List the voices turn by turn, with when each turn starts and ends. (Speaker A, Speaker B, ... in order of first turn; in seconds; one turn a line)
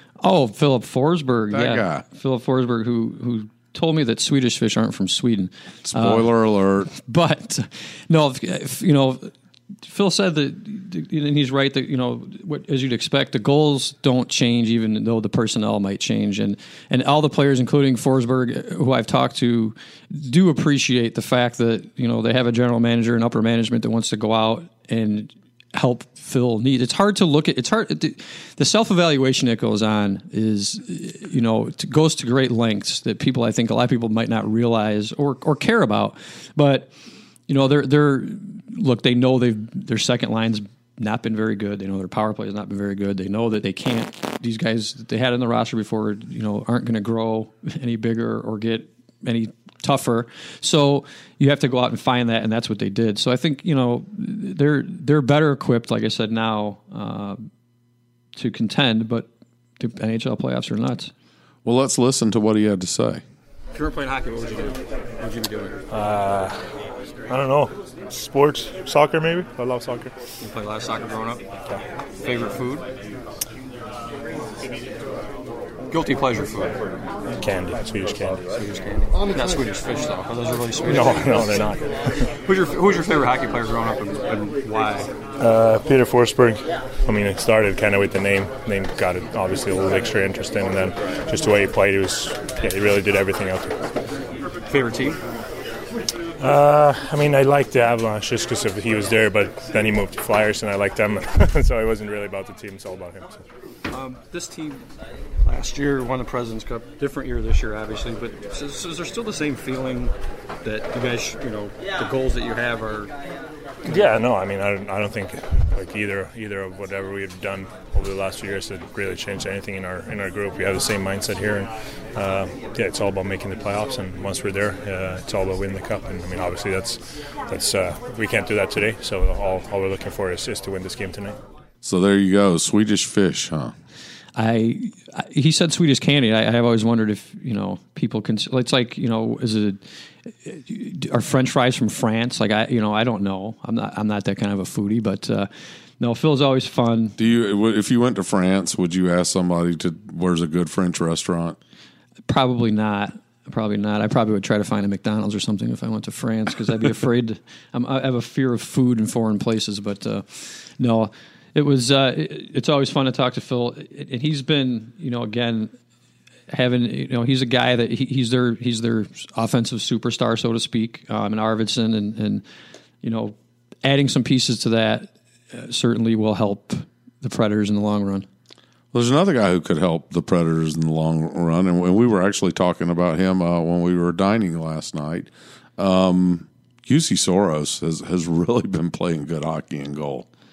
Speaker A: 0.2-6.3
Speaker B: 1.5-2.0
Speaker B: 5.8-6.9
Speaker A: 6.9-9.3
Speaker A: 9.8-36.9
Speaker A: 37.5-57.5
Speaker A: 58.4-59.3
Speaker A: 59.8-61.1
Speaker B: 61.6-63.2
Speaker A: 63.7-65.8
Speaker C: 65.9-66.6
Speaker C: 67.3-70.1
Speaker A: 70.4-71.4
Speaker A: 72.2-72.9
Speaker A: 75.9-76.8
Speaker C: 77.3-78.4
Speaker A: 78.5-81.6
Speaker C: 80.8-82.3
Speaker A: 82.4-85.1
Speaker C: 85.4-93.8
Speaker A: 94.7-95.2
Speaker C: 96.4-103.4
Speaker A: 103.9-104.8
Speaker A: 105.4-113.1
Speaker C: 113.8-131.4
Speaker B: 131.8-133.7
Speaker A: 134.3-145.5
Speaker A: 146.0-147.2
Speaker B: 147.2-151.6
Speaker A: 152.3-165.7
Speaker A: 166.5-172.4
Speaker A: 173.0-178.2
Speaker B: 178.9-190.2